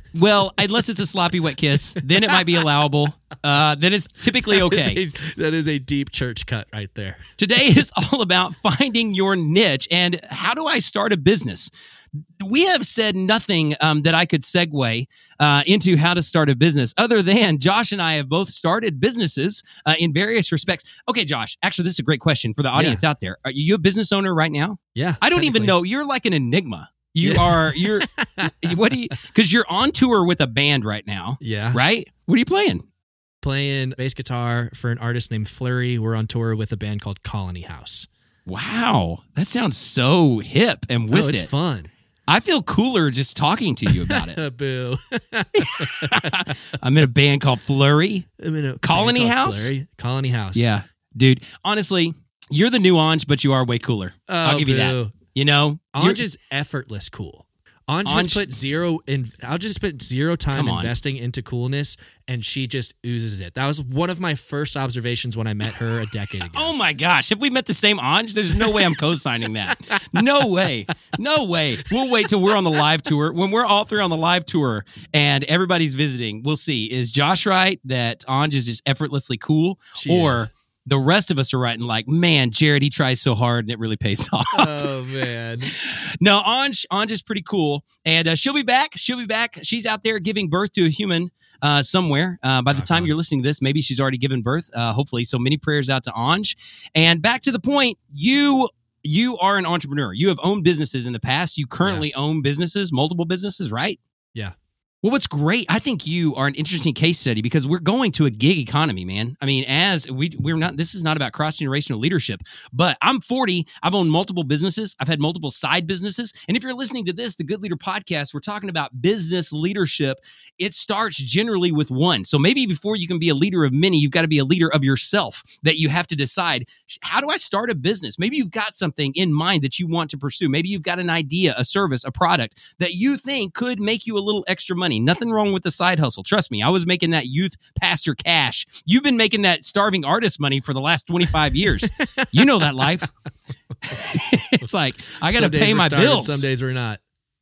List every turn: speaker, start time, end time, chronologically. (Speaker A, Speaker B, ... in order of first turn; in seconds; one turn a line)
Speaker A: 0.1-5.0
Speaker B: 1.9-2.6
Speaker B: 4.5-7.3
Speaker A: 7.4-11.7
Speaker A: 12.4-32.8
Speaker B: 22.7-23.0
Speaker B: 24.9-25.7
Speaker B: 27.2-28.7
Speaker B: 31.4-31.8
Speaker B: 33.4-38.1
Speaker A: 38.5-41.5
Speaker B: 41.1-41.9
Speaker A: 42.3-44.4
Speaker B: 43.9-46.6
Speaker A: 45.6-48.3
Speaker B: 48.4-50.6
Speaker A: 48.8-49.7
Speaker A: 50.5-56.2
Speaker B: 54.3-55.1
Speaker B: 55.9-66.7
Speaker A: 58.0-58.4
Speaker A: 60.5-60.9
Speaker A: 66.5-84.9
Speaker B: 68.5-68.9
Speaker B: 69.7-70.0
Speaker B: 71.9-72.8
Speaker B: 80.0-80.5
Speaker B: 84.5-85.7
Speaker A: 85.7-104.0
Speaker B: 92.7-93.1
Speaker A: 105.0-143.1
Speaker B: 141.8-142.4
Speaker A: 143.9-146.4
Speaker B: 145.3-147.0